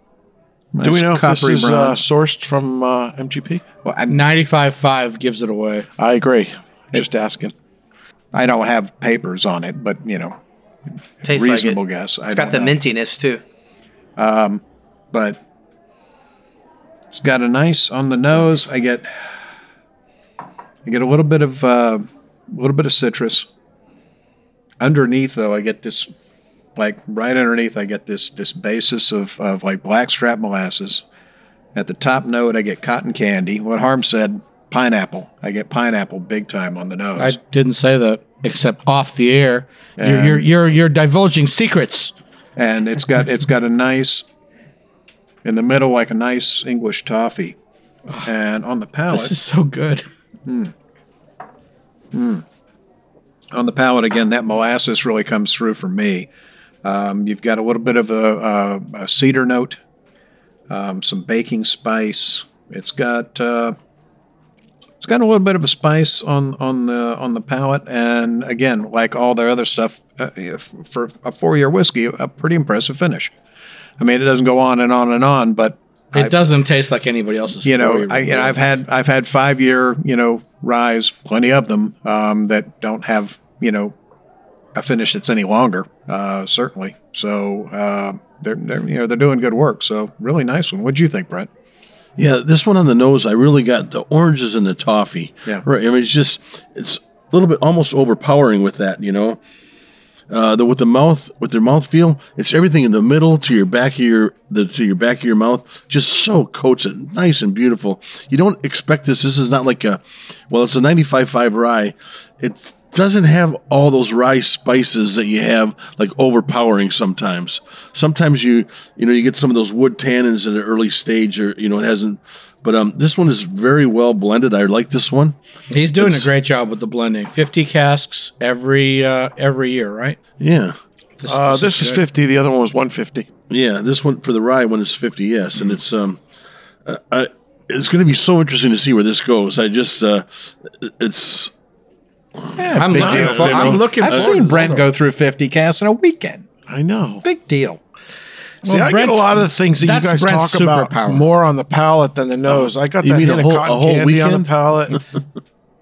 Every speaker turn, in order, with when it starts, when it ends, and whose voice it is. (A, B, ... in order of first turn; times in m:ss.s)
0:00.7-0:02.0 A
0:00.8-0:03.6 B
0:03.8-0:04.2 A
0:04.1-0:05.9 C
0:06.0-0:07.5 B
0:08.3-0:10.4 A
0:11.2-0:12.8 A
0:11.2-0:13.4 D
0:14.2-0:15.4 A
0:17.1-0:19.1 A
0:20.8-0:23.5 A
0:24.8-0:26.1 A
0:26.8-0:31.0 A
0:31.8-0:37.4 A
0:37.2-0:42.1 C
0:40.0-0:40.4 A
0:42.6-0:44.2 A
0:45.4-0:47.6 A
0:48.2-0:49.3 A
0:49.1-0:50.1 C
0:50.5-0:50.7 A
0:52.1-0:52.4 A
0:53.5-0:56.3 A
0:56.8-0:59.8 A
1:00.7-1:03.8 A
1:05.0-1:13.3 A
1:14.0-1:16.3 A
1:16.1-1:18.6 C
1:17.6-1:23.9 A
1:24.8-1:31.5 A
1:32.2-1:39.4 E
1:40.3-2:05.4 E
2:05.7-2:10.2 C
2:06.0-2:06.3 E
2:10.4-2:10.8 E
2:11.2-2:12.0 C
2:11.3-2:13.3 B
2:13.5-2:16.2 E
2:16.9-2:21.5 E
2:22.4-2:24.3 E
2:22.6-2:26.5 A
2:22.8-2:24.9 C
2:23.0-2:23.7 B
2:26.7-2:27.2 B
2:27.2-2:27.8 A
2:28.6-2:31.2 C
2:28.6-2:35.0 B
2:32.5-2:34.5 E